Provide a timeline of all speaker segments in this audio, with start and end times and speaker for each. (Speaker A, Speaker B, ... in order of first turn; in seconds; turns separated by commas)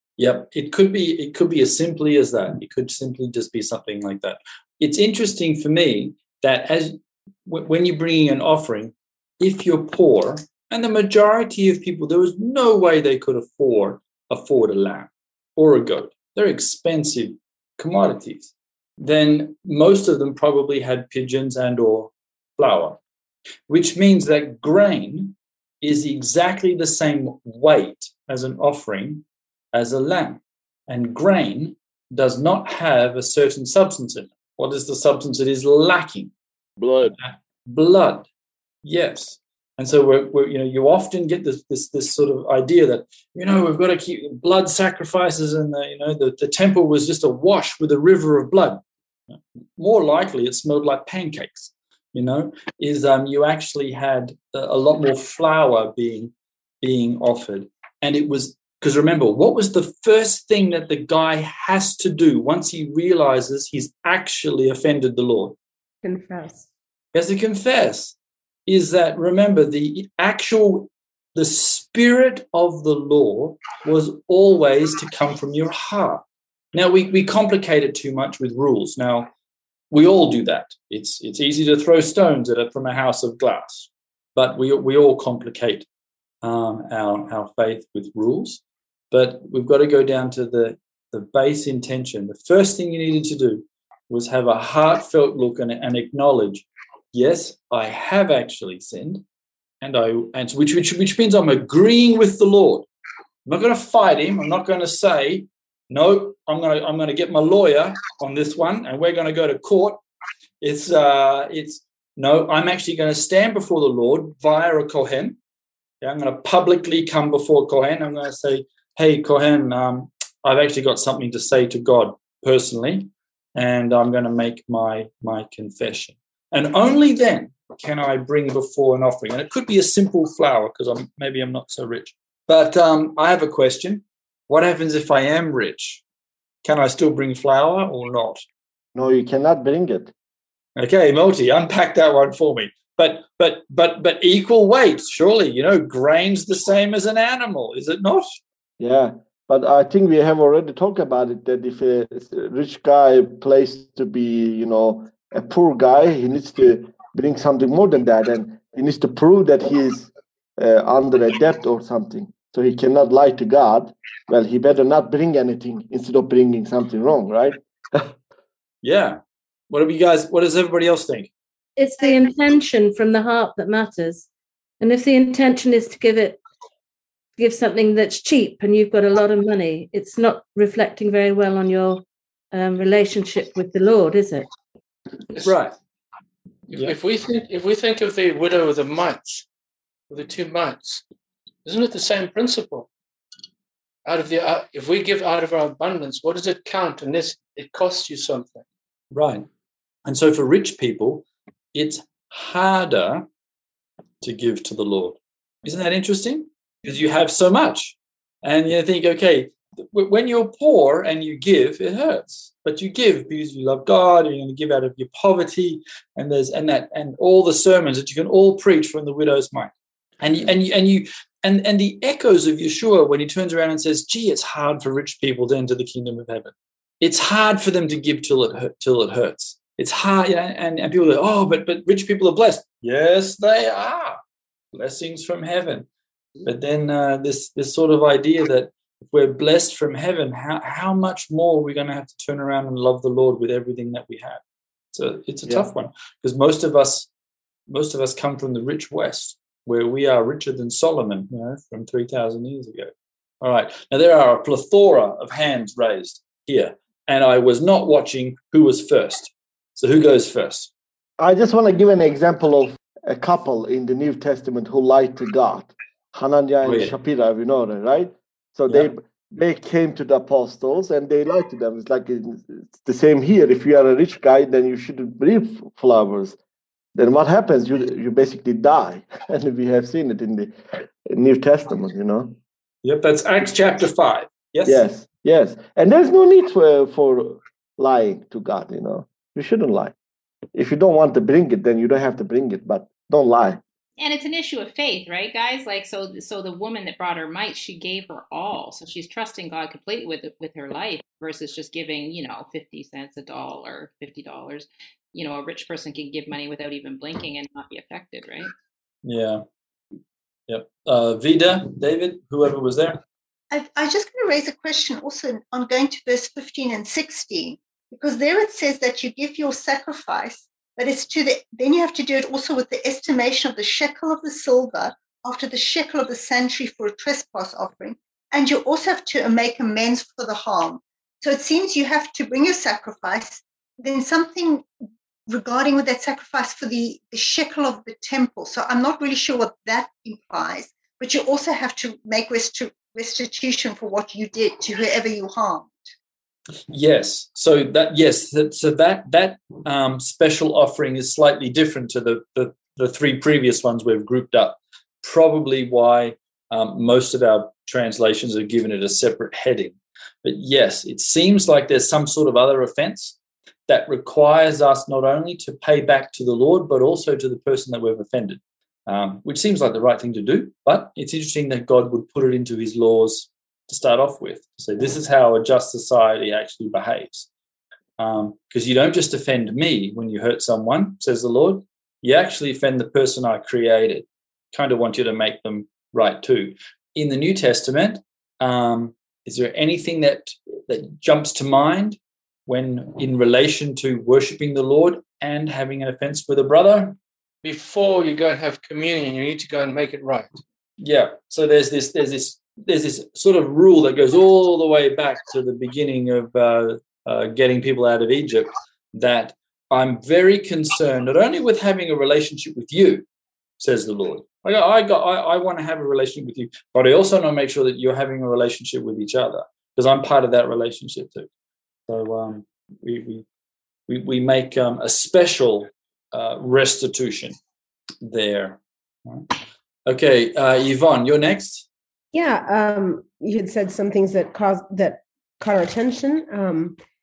Speaker A: 0.2-23.0, Speaker A: 23.7-36.3, Speaker B: 36.8-37.1, Speaker A: 37.2-38.3, Speaker A: 38.8-65.6, Speaker C: 66.0-66.7, Speaker A: 67.1-68.1, Speaker A: 68.7-79.3, Speaker A: 79.9-85.9, Speaker A: 86.4-99.2, Speaker A: 99.8-102.9, Speaker A: 103.5-110.0, Speaker A: 110.6-115.4, Speaker A: 116.0-136.0, Speaker A: 136.6-138.4, Speaker B: 138.9-140.1, Speaker A: 140.8-148.4, Speaker B: 148.8-168.1, Speaker A: 168.8-171.3, Speaker D: 171.8-174.3, Speaker E: 172.0-172.4, Speaker D: 174.8-176.4, Speaker D: 177.4-184.5, Speaker A: 185.4-185.8, Speaker F: 186.7-189.4, Speaker F: 190.1-191.1, Speaker F: 191.6-192.9, Speaker F: 194.1-198.6, Speaker A: 199.1-199.4, Speaker A: 200.1-203.3, Speaker A: 204.2-234.2, Speaker A: 234.7-235.9, Speaker A: 236.4-244.4, Speaker A: 244.9-247.1, Speaker A: 247.7-260.7, Speaker B: 261.2-276.4, Speaker A: 266.6-266.9, Speaker B: 276.9-280.5, Speaker B: 281.1-282.4, Speaker A: 282.8-284.9, Speaker B: 284.6-289.9, Speaker B: 290.5-293.6, Speaker G: 294.0-308.5, Speaker A: 309.0-309.4, Speaker A: 310.5-313.0, Speaker E: 313.5-334.7, Speaker E: 335.3-345.9, Speaker A: 346.7-363.2, Speaker A: 363.7-377.3, Speaker A: 378.0-397.0, Speaker F: 397.4-400.4, Speaker A: 400.8-413.1, Speaker A: 413.6-421.3, Speaker A: 421.9-423.2, Speaker A: 423.9-427.4, Speaker A: 428.0-429.3, Speaker A: 429.9-431.6, Speaker C: 432.1-436.8